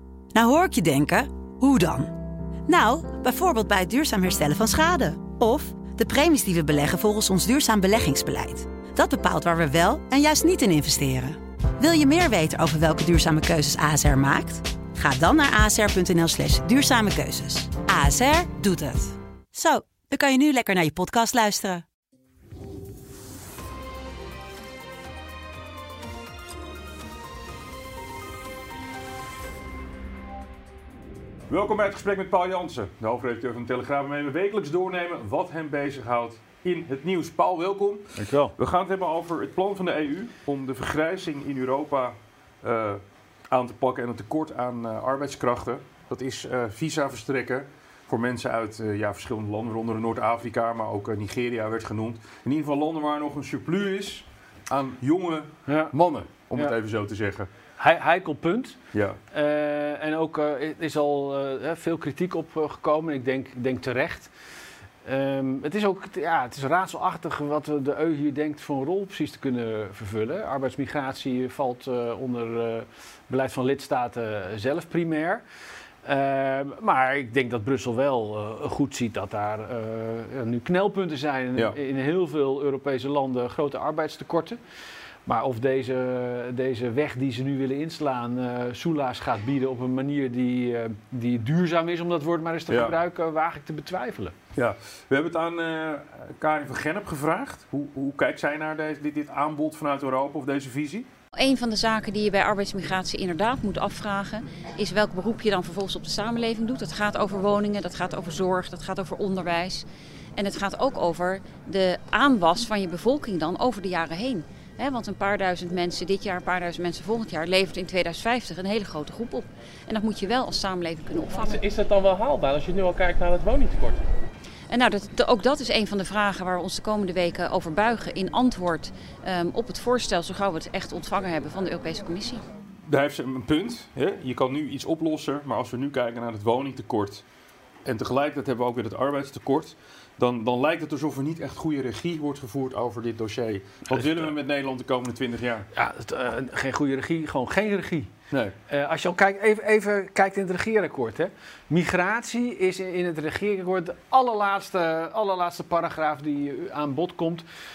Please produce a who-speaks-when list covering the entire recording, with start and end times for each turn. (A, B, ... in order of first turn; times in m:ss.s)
0:00.3-0:02.1 A
0:02.7-0:21.8 A
0:31.5-0:57.5 B
0:38.2-0:38.5 C
0:55.7-0:55.9 C
0:57.8-0:58.8 C
0:59.3-1:04.3 C
1:05.0-1:15.4 C
1:16.0-1:24.6 C
1:25.3-1:34.3 C
1:32.7-1:33.0 B
1:34.6-1:41.1 B
1:41.4-1:49.8 D
1:50.4-2:01.7 D
2:01.7-2:04.0 E
2:04.7-2:12.4 D
2:12.9-2:17.2 B
2:17.8-2:25.7 B
2:25.7-2:28.1 C
2:28.7-2:37.4 C